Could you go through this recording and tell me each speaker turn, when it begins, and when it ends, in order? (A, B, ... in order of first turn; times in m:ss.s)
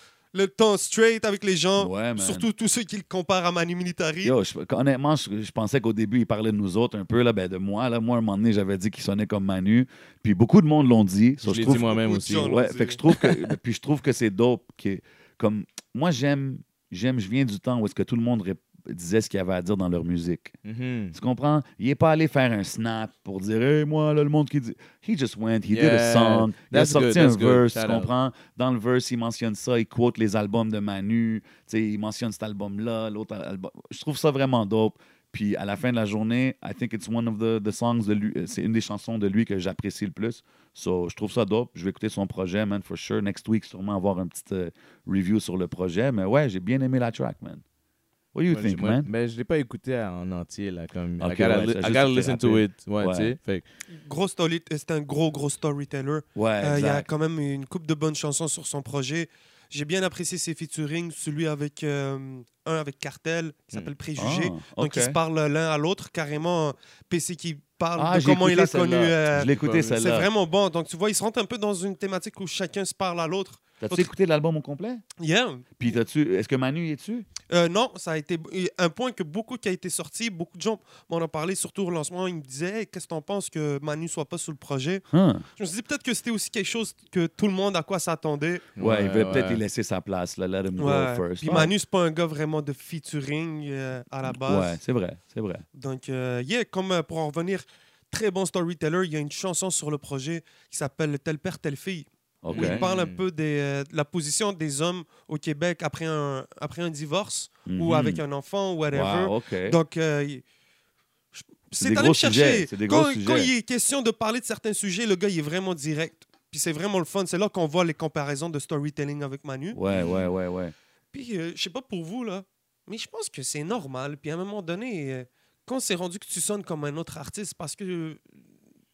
0:00.3-0:04.4 A
0:01.8-0:02.5 B
0:04.2-0:20.5 B
0:11.4-0:12.6 C
0:11.6-0:13.5 A
0:20.6-0:21.2 C
0:21.1-0:47.6 B
0:25.7-0:28.1 C
0:48.3-0:49.1 B
0:48.5-0:53.6 C
0:51.2-0:53.3 B
0:53.9-1:14.1 A
0:56.4-0:57.1 B
1:04.2-1:05.2 B
1:08.0-1:10.3 B
1:09.5-1:10.0 C
1:13.8-1:15.0 B
1:15.2-1:15.7 A
1:15.8-1:17.3 B
1:17.5-1:25.0 A
1:25.1-1:25.4 B
1:25.6-1:28.7 A
1:28.8-1:29.6 C
1:28.8-1:31.7 B
1:30.8-1:34.8 A
1:34.3-1:35.6 B
1:35.8-1:50.4 A
1:42.4-1:42.8 B
1:42.5-1:43.2 C
1:47.7-1:48.2 B
1:48.9-1:49.8 B
1:51.3-1:59.8 A
1:51.8-1:53.5 B
1:59.7-2:00.7 B
1:59.9-2:00.3 C
2:01.1-2:08.2 A